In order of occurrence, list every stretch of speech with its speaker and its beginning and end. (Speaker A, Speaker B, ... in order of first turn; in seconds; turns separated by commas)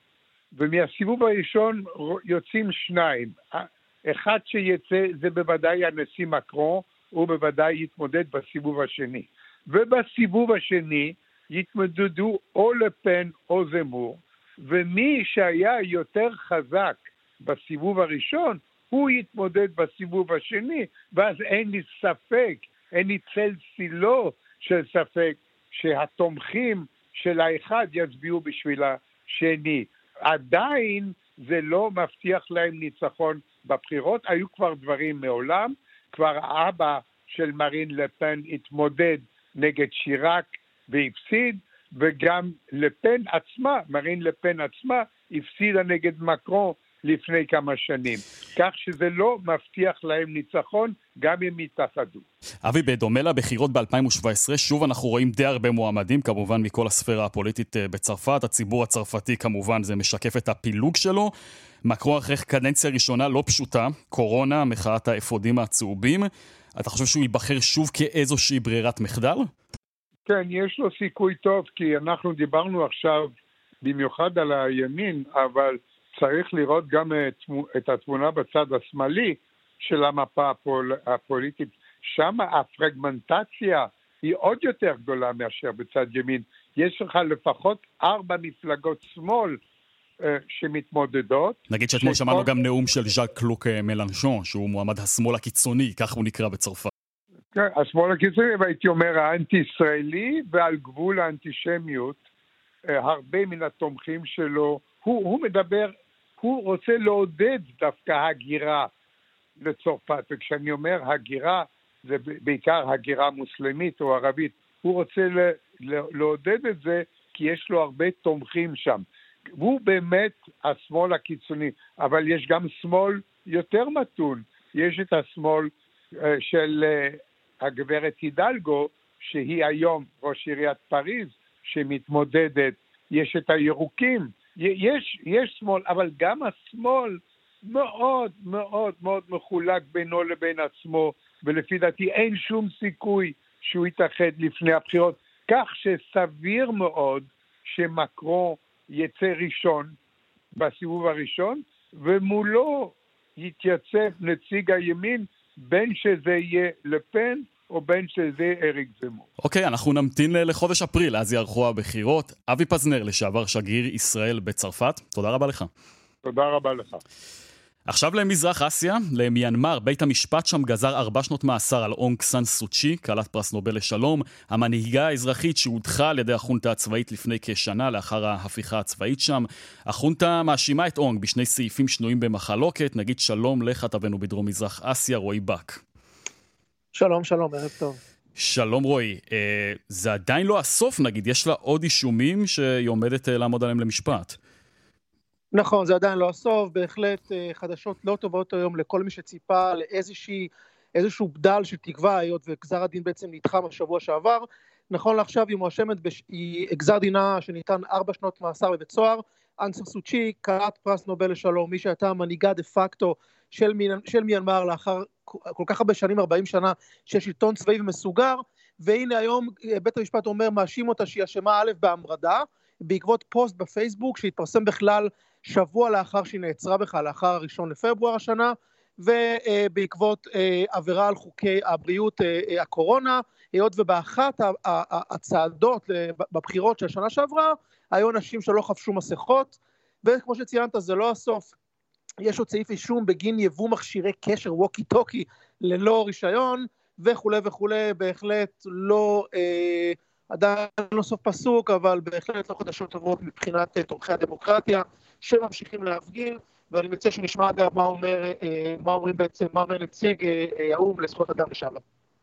Speaker A: 0.5-52.2, Speaker B: 52.6-61.3, Speaker B: 61.8-69.5, Speaker A: 70.3-73.3, Speaker A: 73.8-89.6, Speaker A: 90.2-92.5, Speaker B: 91.7-96.9, Speaker A: 97.5-102.2, Speaker A: 102.9-108.9, Speaker A: 109.6-119.0, Speaker A: 119.6-149.9, Speaker A: 150.5-159.2, Speaker B: 159.4-165.7, Speaker A: 166.2-167.0, Speaker B: 167.9-185.8, Speaker C: 186.9-188.0, Speaker B: 188.4-194.4, Speaker C: 195.5-241.5, Speaker C: 242.2-261.8